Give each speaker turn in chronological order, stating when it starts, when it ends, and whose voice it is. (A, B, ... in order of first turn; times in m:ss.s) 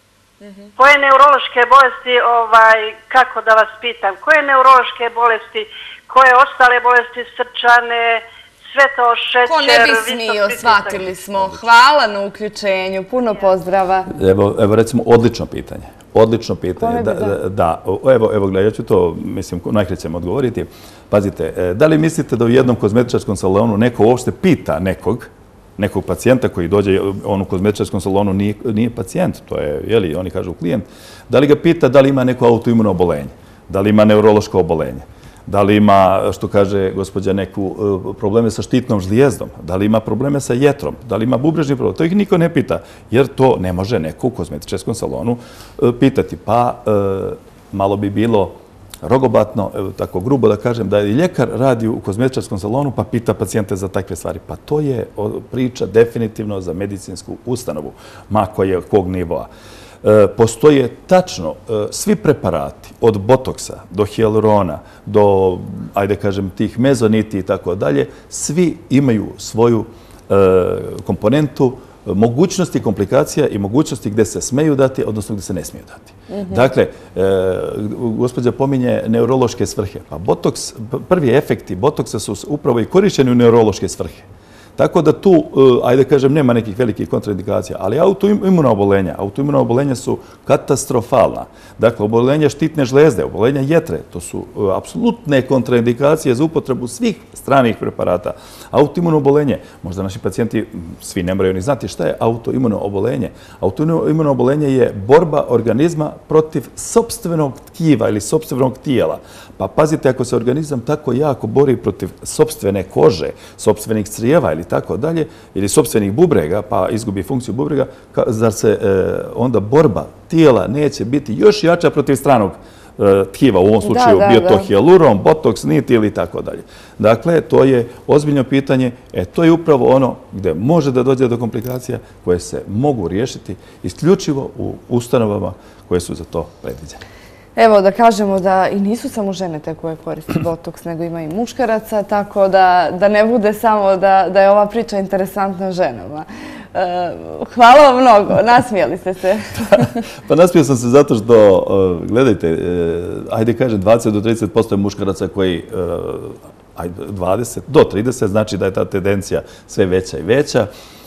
0:00.8-0:11.1 A
0:09.4-0:14.1 B
0:14.1-0:59.5 C
0:16.8-0:17.4 B
1:00.0-2:17.0 C
1:16.3-1:16.7 B
2:03.8-2:04.7 B
2:17.6-2:29.9 B
2:29.7-2:40.7 C